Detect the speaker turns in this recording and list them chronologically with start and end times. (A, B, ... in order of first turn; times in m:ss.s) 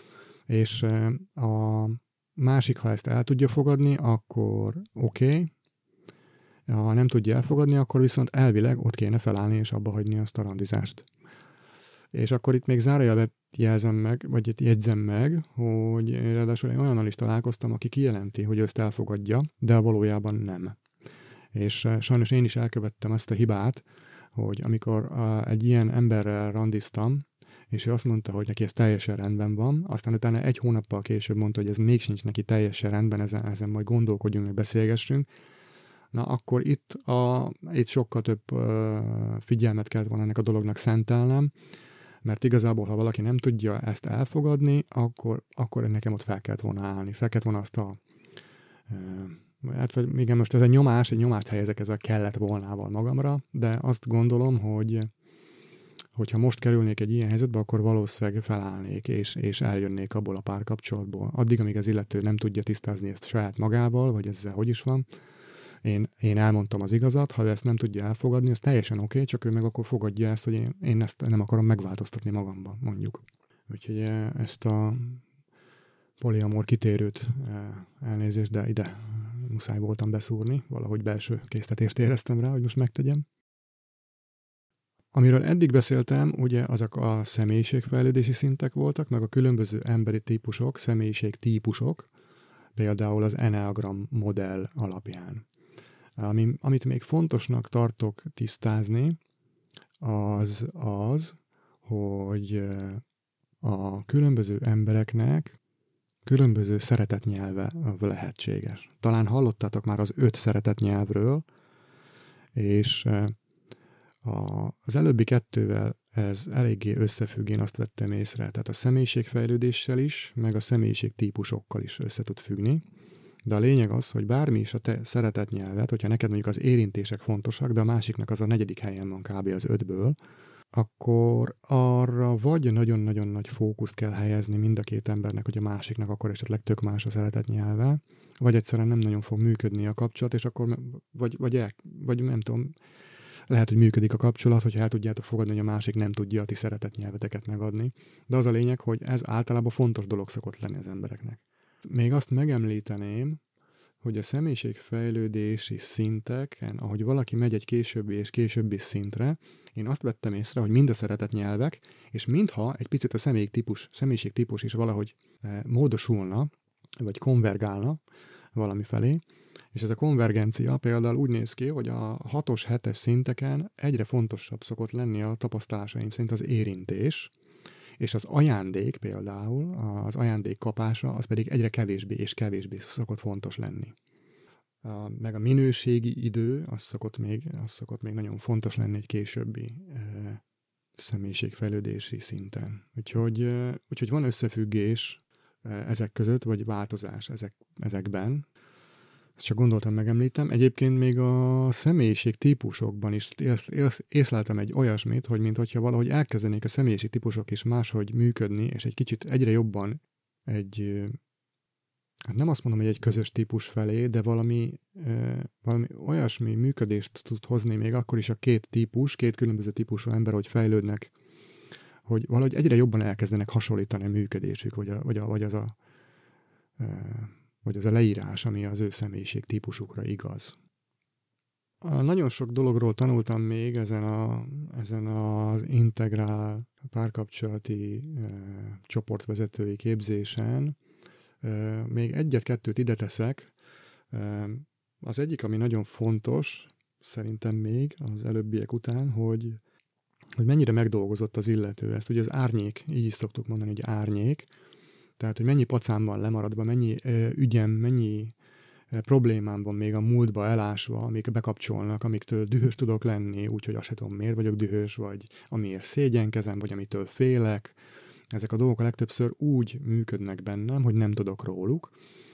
0:00.5-0:05.5 A
0:06.7-0:11.0 A
0:12.1-0:20.8 A
0:21.5-0:23.8 A
0:24.4-0:35.3 A
0:36.1-0:41.5 A
0:42.2-0:48.0 A
0:48.9-0:55.1 A
0:56.2-1:05.0 A
1:05.8-1:15.2 A
1:16.2-1:23.2 A
1:25.1-1:32.1 A
1:32.8-1:35.4 A
1:36.2-1:39.2 A
1:40.0-1:43.0 A
1:43.6-1:45.6 A
1:46.2-1:51.4 A
1:52.5-1:53.4 A
1:54.2-2:02.8 A
2:03.4-2:10.2 A
2:10.7-2:22.7 A
2:23.5-2:33.4 A
2:34.0-2:48.0 A
2:48.5-2:49.2 A
2:49.7-2:57.3 A
2:58.0-3:03.9 A
3:04.8-3:10.4 A
3:11.0-3:18.4 A
3:19.4-3:31.2 A
3:32.3-3:41.1 A
3:42.1-3:45.8 A
3:46.8-3:50.6 A
3:51.8-4:00.8 A
4:01.4-4:03.5 A
4:04.1-4:09.6 A
4:10.4-4:14.5 A
4:15.2-4:18.3 A
4:18.9-4:27.8 A
4:28.3-4:31.9 A